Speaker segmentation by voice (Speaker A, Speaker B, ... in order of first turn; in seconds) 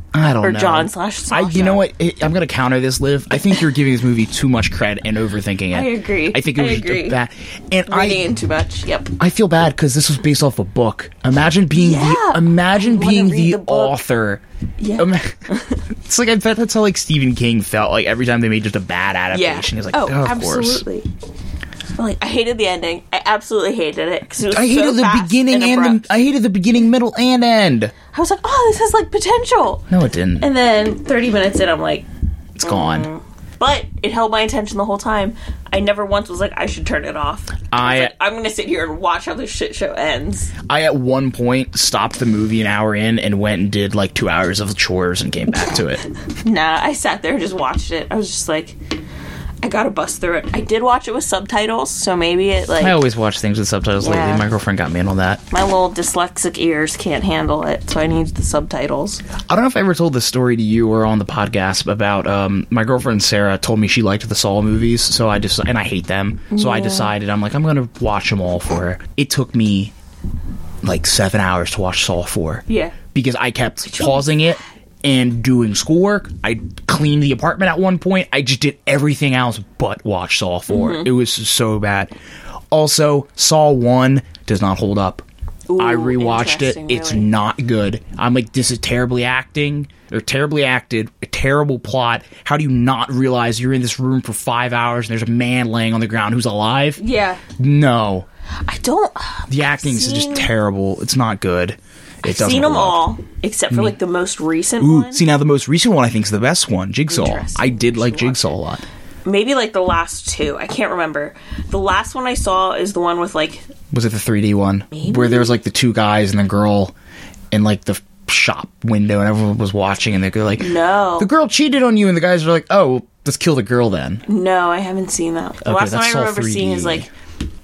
Speaker A: 0.1-8.3, 9.2-14.4, 15.0-15.5, 16.0-20.8, 24.5-27.9, 29.9-30.5, 32.5-33.1, 37.7-38.1, 40.6-46.0, 52.8-55.4, 59.5-69.9, 70.8-82.1, 82.7-85.2, 85.8-97.0, 97.6-98.2, 99.5-103.0, 103.7-104.0, 104.8-108.8, 113.9-116.9, 117.5-124.2, 125.6-127.1
Speaker B: 0.4-1.8, 5.7-7.2, 7.9-9.1, 11.7-13.9, 14.8-15.8, 19.3-21.1, 21.9-26.1, 28.1-29.9, 30.4-32.0, 32.6-40.5, 46.3-48.8, 49.6-53.0, 54.0-54.5, 55.5-59.2, 66.5-67.1, 72.7-73.0, 74.0-74.2, 80.7-81.1, 85.7-87.3, 97.0-97.4, 98.6-100.5, 102.2-105.2, 107.1-108.6, 109.2-113.7, 114.9-115.5, 120.6-121.3, 124.3-127.1